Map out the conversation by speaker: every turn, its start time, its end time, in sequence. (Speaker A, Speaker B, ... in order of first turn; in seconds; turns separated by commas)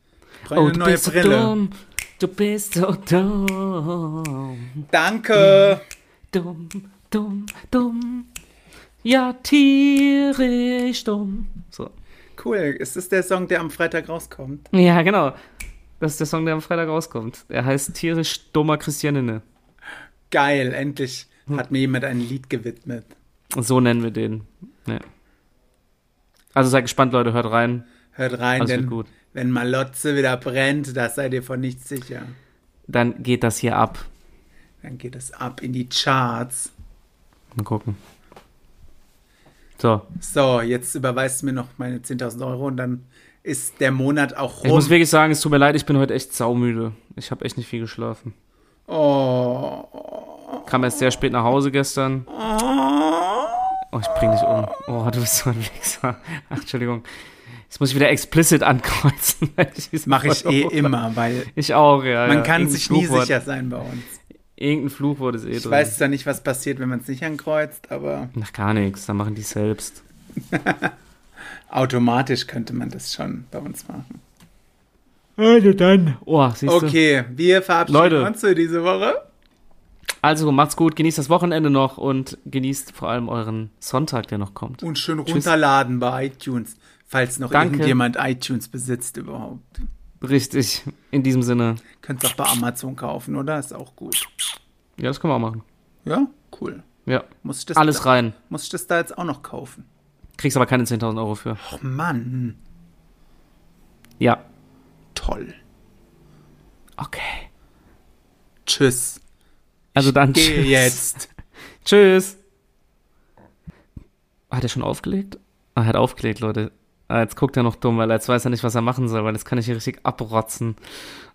Speaker A: 0.5-1.5, Speaker B: 0.5-4.8, Speaker A: 4.9-5.8, Speaker B: 6.3-8.3, Speaker B: 9.0-11.9, Speaker A: 12.4-14.7, Speaker B: 14.7-15.3, Speaker B: 16.0-19.4, Speaker A: 20.3-23.1, Speaker B: 23.5-25.0, Speaker B: 26.5-27.9, Speaker A: 28.1-32.4, Speaker B: 28.6-29.1, Speaker B: 32.9-34.1, Speaker A: 34.8-36.7, Speaker B: 37.5-38.0, Speaker B: 39.8-40.1, Speaker A: 40.2-45.0, Speaker B: 44.6-48.3, Speaker A: 48.9-50.7, Speaker B: 50.6-52.3, Speaker A: 52.3-53.7, Speaker B: 53.9-57.0, Speaker B: 57.7-60.9, Speaker A: 60.0-61.5, Speaker B: 61.5-63.3, Speaker A: 62.2-64.2, Speaker B: 64.6-65.9, Speaker A: 65.5-68.3, Speaker B: 68.3-70.0, Speaker A: 70.5-70.9, Speaker A: 71.7-74.2, Speaker B: 75.4-77.0, Speaker A: 76.7-79.2, Speaker B: 77.9-78.3, Speaker B: 80.2-85.5, Speaker A: 84.8-89.8, Speaker B: 87.5-88.0, Speaker B: 90.2-91.8, Speaker A: 92.0-94.3, Speaker B: 95.0-95.6, Speaker A: 96.0-96.8, Speaker B: 97.1-98.3, Speaker A: 97.4-99.9, Speaker B: 100.4-101.6, Speaker A: 101.6-102.6, Speaker A: 105.1-105.6, Speaker B: 107.0-107.5, Speaker A: 108.7-109.2, Speaker A: 109.9-111.3, Speaker B: 110.0-111.0, Speaker B: 111.8-112.4, Speaker B: 114.5-120.8